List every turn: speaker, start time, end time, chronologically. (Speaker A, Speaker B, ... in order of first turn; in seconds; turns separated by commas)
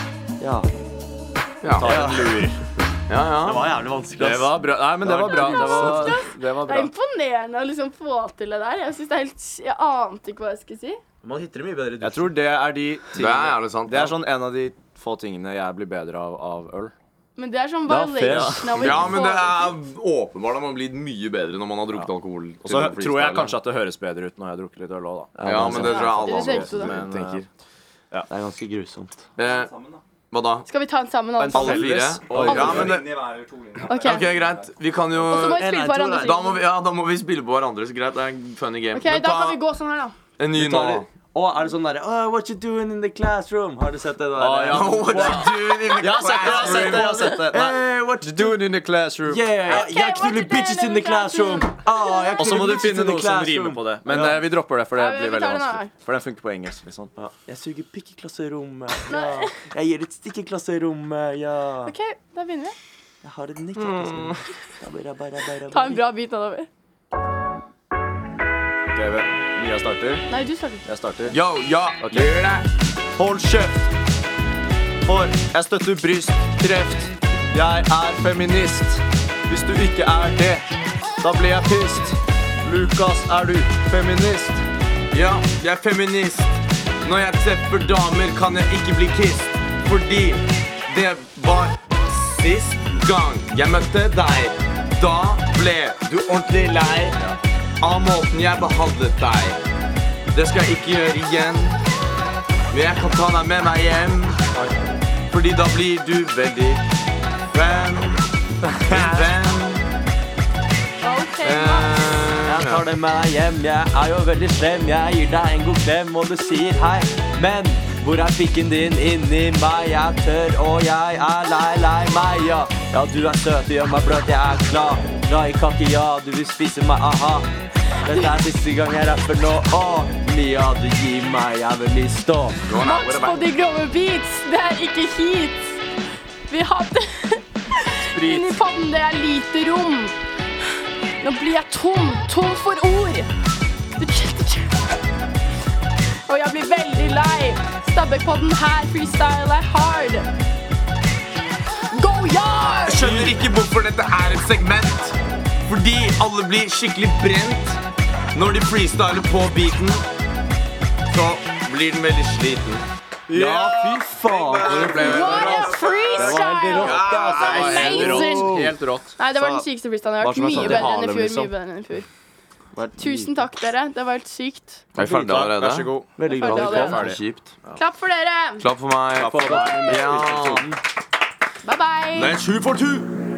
Speaker A: 0.4-0.7, Speaker B: 1.6-2.0, Speaker C: 1.8-2.5, Speaker A: 1.8-2.5, Speaker B: 3.1-3.6, Speaker A: 3.4-6.2, Speaker C: 4.2-6.9, Speaker D: 5.2-11.0, Speaker A: 11.2-12.4, Speaker C: 12.0-16.9, Speaker B: 13.1-14.2, Speaker D: 17.4-19.7, Speaker A: 17.9-19.0, Speaker C: 18.2-18.6, Speaker B: 18.7-23.6, Speaker C: 22.6-27.5, Speaker A: 25.4-26.2, Speaker B: 25.4-27.5, Speaker D: 25.6-26.9, Speaker A: 28.3-29.2, Speaker B: 29.4-29.7, Speaker C: 29.5-30.0, Speaker B: 30.3-30.7, Speaker D: 30.7-33.0, Speaker C: 31.4-34.5, Speaker B: 31.5-33.1, Speaker A: 32.4-32.9, Speaker D: 33.9-34.3, Speaker B: 33.9-35.7, Speaker D: 35.2-36.6, Speaker A: 35.4-36.5, Speaker B: 36.2-39.6, Speaker D: 38.9-40.1, Speaker B: 40.4-41.1, Speaker A: 40.5-48.6, Speaker C: 44.4-49.9, Speaker B: 44.7-47.4, Speaker A: 49.2-54.4, Speaker D: 49.7-52.6, Speaker C: 52.4-57.1, Speaker D: 54.9-55.9, Speaker A: 57.2-61.9, Speaker D: 59.1-59.6, Speaker D: 61.9-62.8, Speaker A: 63.2-66.0, Speaker B: 63.8-64.4, Speaker D: 65.7-66.7, Speaker C: 68.9-70.3, Speaker D: 70.3-70.8, Speaker C: 70.9-71.4, Speaker B: 71.3-72.7, Speaker C: 72.0-72.3, Speaker C: 73.2-73.9, Speaker C: 75.1-80.7, Speaker C: 81.2-84.6, Speaker B: 85.1-86.5, Speaker B: 87.0-97.2, Speaker B: 97.8-99.6, Speaker B: 100.3-101.8, Speaker B: 102.7-104.4, Speaker B: 105.3-106.8, Speaker B: 107.5-108.3, Speaker A: 108.9-109.2, Speaker B: 108.9-109.9, Speaker D: 111.0-112.3, Speaker B: 111.4-112.8, Speaker A: 112.4-127.5, Speaker A: 128.0-132.7, Speaker D: 128.1-128.3, Speaker B: 132.7-133.5, Speaker D: 132.7-135.8, Speaker D: 136.5-140.2, Speaker C: 138.1-138.5, Speaker D: 141.2-143.3, Speaker D: 144.0-145.0, Speaker D: 146.3-150.3, Speaker D: 151.9-153.1, Speaker B: 152.9-157.8, Speaker C: 153.1-153.4, Speaker B: 158.3-160.0, Speaker B: 161.1-162.9, Speaker C: 163.3-169.7, Speaker A: 163.3-168.6, Speaker B: 163.5-168.4, Speaker D: 164.9-172.1, Speaker A: 170.2-171.4, Speaker C: 170.5-171.5, Speaker A: 172.8-173.4, Speaker D: 173.0-174.9, Speaker B: 174.9-175.9, Speaker C: 175.0-177.8, Speaker A: 176.2-177.1, Speaker D: 176.2-177.2, Speaker B: 176.8-177.5, Speaker D: 177.8-178.7, Speaker B: 178.6-180.7, Speaker C: 179.2-180.8, Speaker A: 179.5-180.2, Speaker D: 181.6-182.4, Speaker B: 182.1-183.1